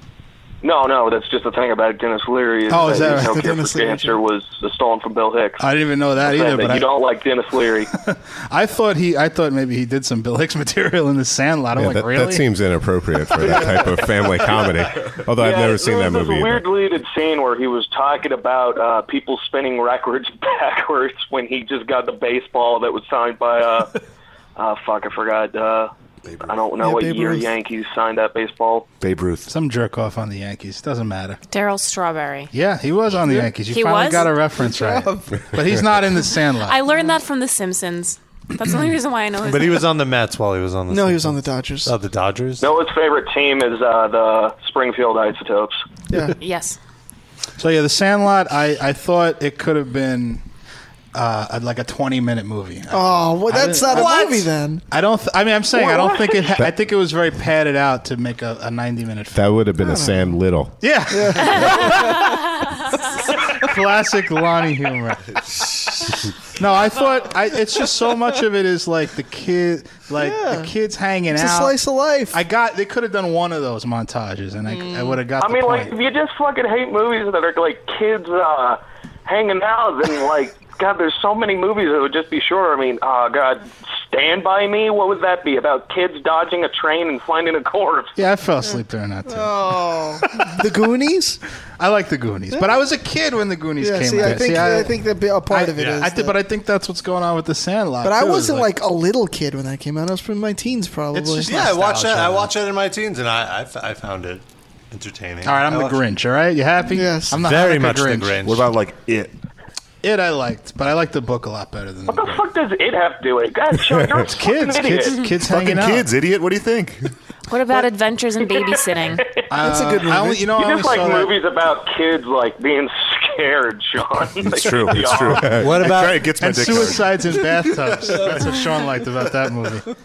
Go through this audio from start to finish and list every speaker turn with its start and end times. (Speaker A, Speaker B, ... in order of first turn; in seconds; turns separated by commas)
Speaker A: 0.6-5.6, Speaker B: 2.7-3.5, Speaker C: 2.7-4.2, Speaker B: 5.6-6.9, Speaker A: 6.2-7.9, Speaker B: 7.9-12.5, Speaker D: 11.8-16.6, Speaker A: 15.4-24.0, Speaker A: 24.6-28.9, Speaker E: 26.3-26.5, Speaker C: 27.1-27.4, Speaker E: 29.0-29.5, Speaker B: 29.5-31.4, Speaker F: 31.5-32.5, Speaker B: 32.5-36.8, Speaker F: 33.6-34.3, Speaker C: 34.6-35.5, Speaker F: 36.6-39.9, Speaker G: 39.4-42.7, Speaker C: 40.9-41.9, Speaker A: 42.6-45.8, Speaker C: 46.1-46.4, Speaker F: 46.4-46.8, Speaker B: 47.6-50.4, Speaker B: 51.1-59.5, Speaker C: 52.9-54.9, Speaker D: 59.3-60.8, Speaker C: 59.8-60.2, Speaker B: 60.8-62.3, Speaker C: 61.1-62.4, Speaker B: 63.5-65.4, Speaker B: 66.5-71.8, Speaker C: 70.2-70.7, Speaker C: 71.3-72.4, Speaker B: 72.3-76.0, Speaker C: 74.7-75.2, Speaker A: 75.4-88.2, Speaker B: 88.2-90.7, Speaker C: 89.3-91.4, Speaker B: 91.8-98.7, Speaker C: 93.8-96.4, Speaker C: 98.0-101.8, Speaker B: 101.1-102.5, Speaker G: 101.5-106.0, Speaker B: 105.4-108.4, Speaker C: 106.9-107.4, Speaker G: 107.4-108.7, Speaker E: 108.4-109.3, Speaker B: 110.0-112.4, Speaker A: 112.1-115.3, Speaker B: 114.2-116.1, Speaker E: 115.4-117.1, Speaker F: 117.5-119.2, Speaker A: 118.5-119.4, Speaker B: 119.5-121.3, Speaker C: 119.6-120.6, Speaker A: 120.5-125.5, Speaker E: 124.4-127.3, Speaker G: 125.5-126.3, Speaker B: 126.4-129.9